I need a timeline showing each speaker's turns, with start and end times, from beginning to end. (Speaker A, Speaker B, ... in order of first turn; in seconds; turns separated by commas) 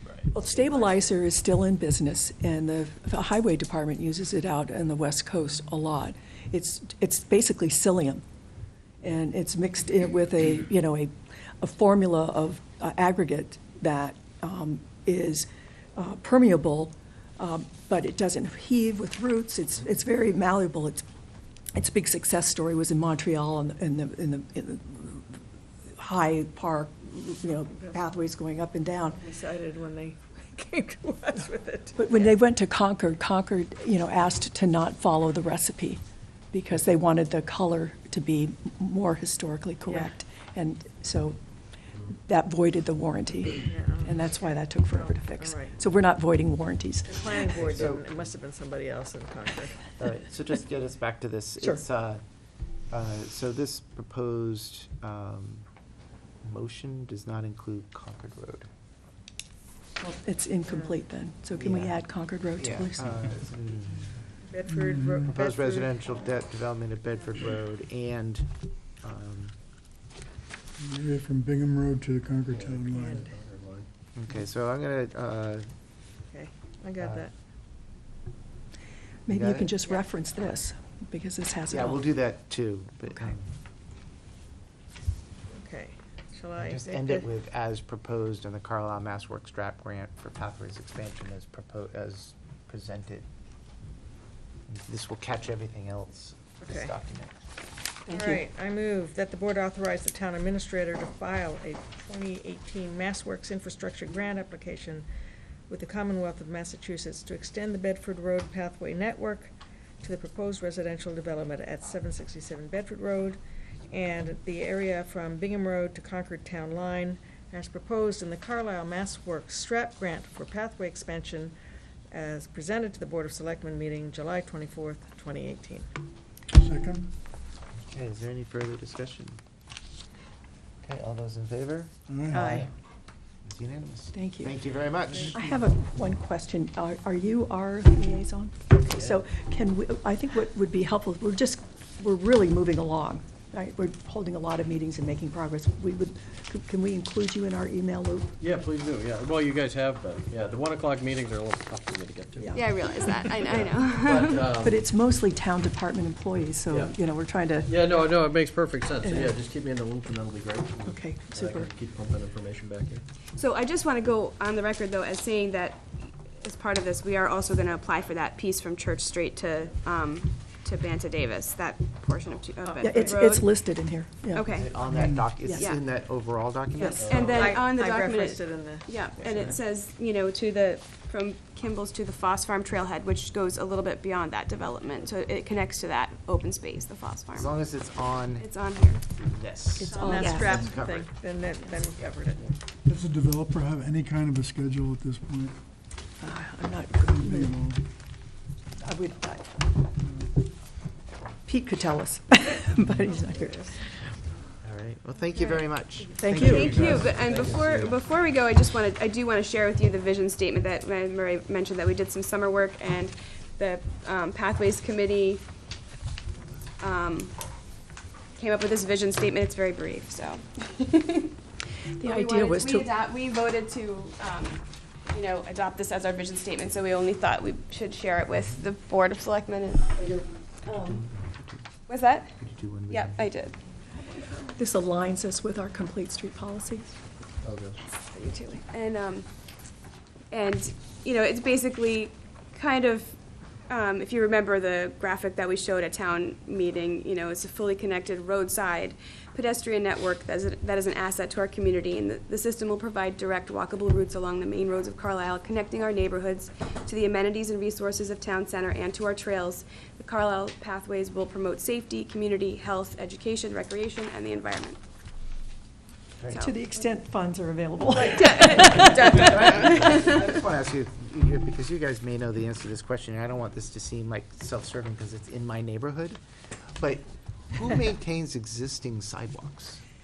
Speaker A: 0.3-8.2, Speaker B: 0.6-0.9, Speaker A: 9.0-21.1, Speaker A: 21.7-25.4, Speaker A: 26.0-29.2, Speaker B: 29.1-32.3, Speaker A: 31.9-36.0, Speaker A: 36.5-41.4, Speaker B: 39.9-40.1, Speaker A: 42.1-47.3, Speaker B: 43.6-45.8, Speaker B: 47.1-49.8, Speaker C: 47.5-48.0, Speaker C: 50.0-52.2, Speaker C: 52.9-55.6, Speaker C: 56.4-58.7, Speaker A: 60.0-63.2, Speaker B: 60.7-61.0, Speaker C: 61.6-62.0, Speaker C: 62.6-64.2, Speaker B: 64.4-66.0, Speaker D: 64.7-65.4, Speaker C: 65.3-68.5, Speaker C: 69.0-69.5, Speaker D: 70.8-73.2, Speaker E: 72.5-73.9, Speaker B: 72.9-73.3, Speaker C: 74.1-75.7, Speaker B: 76.3-77.3, Speaker A: 79.3-82.0, Speaker C: 79.3-79.7, Speaker C: 81.7-83.5, Speaker B: 85.5-87.2, Speaker C: 86.6-93.3, Speaker C: 94.7-97.3, Speaker B: 96.6-96.9, Speaker A: 98.1-98.4, Speaker B: 98.1-105.1, Speaker B: 105.7-121.5, Speaker B: 122.1-125.9, Speaker D: 126.5-127.1, Speaker C: 127.8-129.4, Speaker C: 130.8-132.7, Speaker D: 132.1-132.6, Speaker C: 133.4-135.3, Speaker A: 134.1-134.6, Speaker A: 135.3-148.3, Speaker E: 148.4-154.8, Speaker A: 152.3-152.6, Speaker F: 152.5-154.5, Speaker A: 154.6-157.7, Speaker E: 156.7-157.0, Speaker E: 157.6-163.0, Speaker A: 159.0-159.3, Speaker A: 160.8-161.7, Speaker F: 163.3-173.5, Speaker B: 172.7-173.2, Speaker A: 172.8-174.4, Speaker F: 174.3-174.8, Speaker C: 174.5-177.1, Speaker D: 174.9-175.3, Speaker A: 175.4-175.7, Speaker F: 175.5-175.8, Speaker A: 176.8-177.2, Speaker B: 177.0-178.9, Speaker E: 177.0-177.5, Speaker F: 177.0-187.5, Speaker C: 179.2-179.6, Speaker C: 187.3-188.5, Speaker F: 188.4-189.0, Speaker C: 189.1-191.1, Speaker A: 189.8-190.7, Speaker B: 189.9-192.5, Speaker F: 190.1-190.5, Speaker D: 192.8-195.6, Speaker A: 196.2-197.7, Speaker D: 197.0-197.8, Speaker A: 198.8-199.8, Speaker D: 200.0-200.3, Speaker A: 201.5-203.8, Speaker B: 203.0-203.8, Speaker C: 204.6-207.5, Speaker B: 205.3-205.6, Speaker A: 206.2-207.0, Speaker F: 206.3-215.4, Speaker E: 206.8-207.9, Speaker F: 216.8-217.3, Speaker F: 218.3-221.3, Speaker F: 222.0-229.9, Speaker A: 222.0-222.9, Speaker A: 230.1-230.8, Speaker C: 230.7-231.7, Speaker F: 231.9-232.3, Speaker C: 232.4-233.2, Speaker F: 232.9-233.5, Speaker A: 234.5-236.9, Speaker E: 237.4-237.8, Speaker F: 238.1-239.3, Speaker F: 240.3-243.2, Speaker F: 243.7-264.8, Speaker C: 266.2-266.5, Speaker A: 266.3-269.4, Speaker F: 267.9-270.3, Speaker C: 268.6-276.2, Speaker C: 276.8-279.8